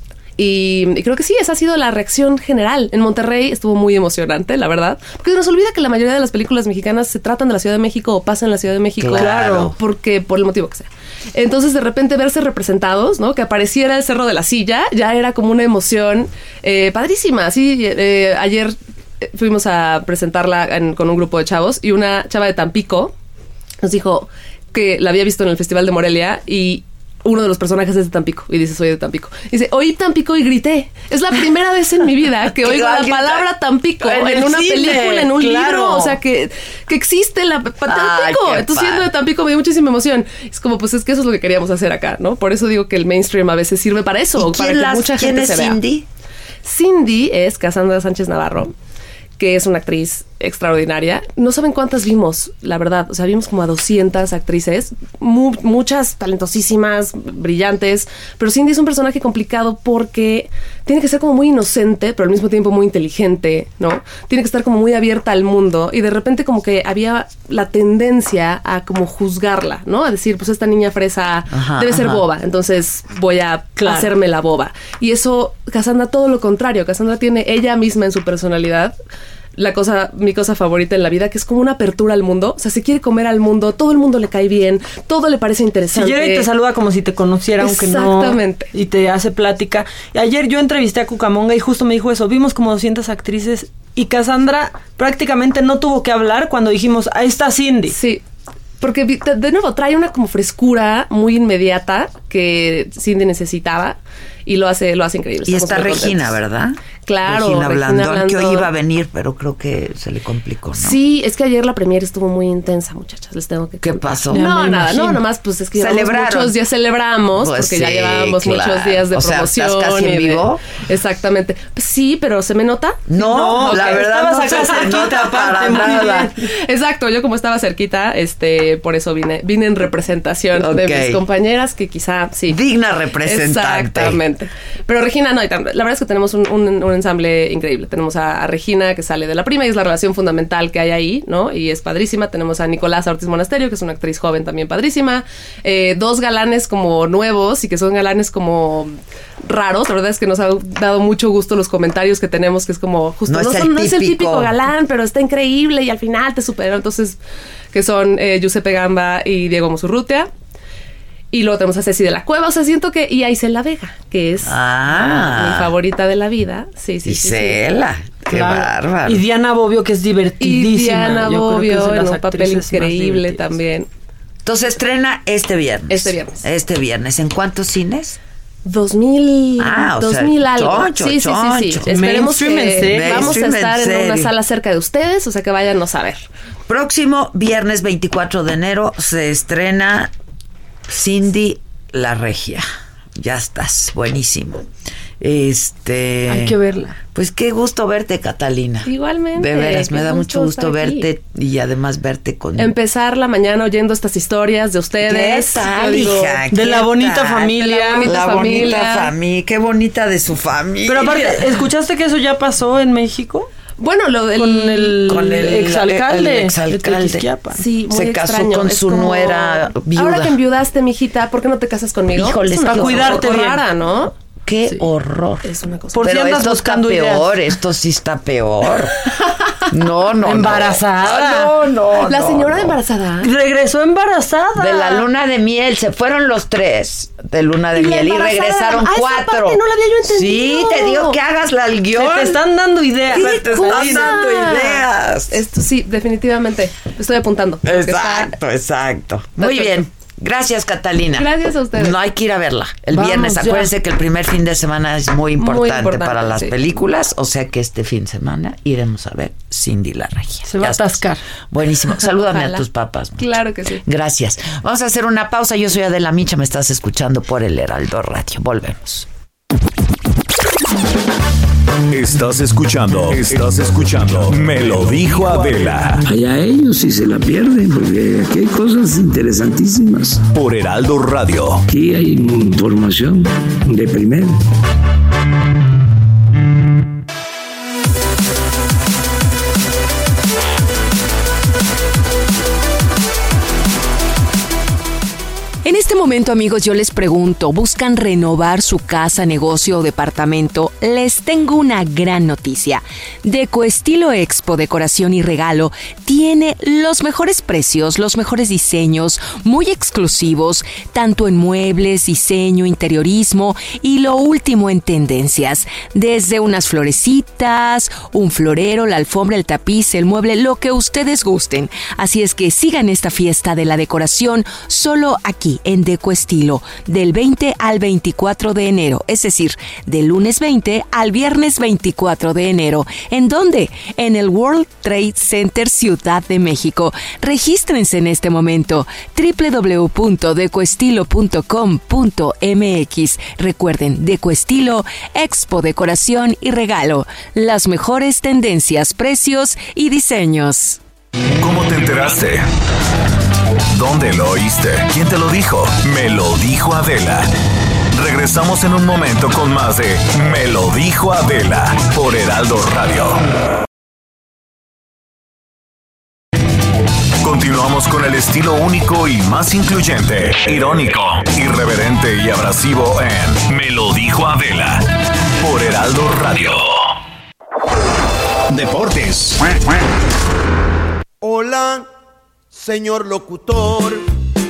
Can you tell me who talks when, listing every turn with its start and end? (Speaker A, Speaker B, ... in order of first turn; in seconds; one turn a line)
Speaker A: 0.4-23.1
Speaker B: 9.0-9.8
Speaker A: 23.8-45.8
Speaker B: 32.6-36.2
Speaker B: 37.8-39.1
Speaker B: 44.4-46.0
Speaker A: 46.6-48.7
Speaker A: 49.4-79.0
Speaker B: 71.5-72.2
Speaker C: 73.8-74.1
Speaker A: 79.5-86.5
Speaker C: 85.9-97.9
Speaker A: 87.6-88.7
Speaker A: 97.9-98.2
Speaker A: 98.8-106.3
Speaker B: 105.5-111.0
Speaker A: 107.0-108.7
Speaker A: 110.7-124.0
Speaker B: 113.8-115.2
Speaker C: 114.3-115.1
Speaker B: 115.8-116.6
Speaker B: 117.3-120.6
Speaker B: 123.1-126.3
Speaker C: 123.1-126.3
Speaker A: 125.7-132.6
Speaker B: 130.6-131.2
Speaker B: 132.5-134.2
Speaker A: 133.2-157.2
Speaker B: 153.3-154.5
Speaker A: 157.7-160.3
Speaker A: 161.3-167.6
Speaker B: 164.4-165.7
Speaker B: 167.1-169.2
Speaker C: 168.3-173.5
Speaker A: 170.4-173.9
Speaker B: 174.4-178.2
Speaker A: 175.9-176.4
Speaker A: 178.7-186.2
Speaker B: 179.6-184.3
Speaker C: 181.8-183.4
Speaker B: 186.7-190.1
Speaker B: 190.9-192.7
Speaker B: 193.2-194.6
Speaker B: 195.2-196.6
Speaker C: 196.3-196.9
Speaker B: 197.1-202.7
Speaker A: 198.8-201.1
Speaker A: 202.6-206.4
Speaker B: 205.0-211.5
Speaker C: 206.5-208.1
Speaker A: 207.6-209.1
Speaker C: 210.8-213.5
Speaker A: 213.8-215.0
Speaker C: 214.3-217.6
Speaker B: 215.0-217.3
Speaker A: 217.6-224.1
Speaker B: 217.9-220.3
Speaker B: 222.1-223.6
Speaker C: 222.6-223.6
Speaker B: 224.4-228.9
Speaker A: 225.4-226.1
Speaker C: 225.9-227.3
Speaker B: 229.7-232.8
Speaker C: 230.2-231.6
Speaker A: 232.0-233.3
Speaker C: 233.2-235.1
Speaker B: 234.6-242.4
Speaker A: 237.8-241.2
Speaker C: 241.9-244.3
Speaker B: 243.1-245.4
Speaker A: 243.4-248.3
Speaker B: 247.6-269.1
Speaker A: 249.4-249.8
Speaker A: 251.1-252.0
Speaker C: 252.9-253.7
Speaker A: 255.4-256.6
Speaker C: 260.4-261.2
Speaker A: 262.1-262.6
Speaker A: 263.2-263.8
Speaker D: 271.9-276.0
Speaker E: 276.1-280.2
Speaker D: 280.3-281.6
Speaker E: 281.7-284.4
Speaker F: 295.6-350.8
Speaker D: 351.4-352.4
Speaker D: 353.7-357.3
Speaker D: 357.9-363.2
Speaker D: 367.2-376.9
Speaker D: 378.6-379.3
Speaker G: 381.2-381.9
Speaker G: 382.5-384.1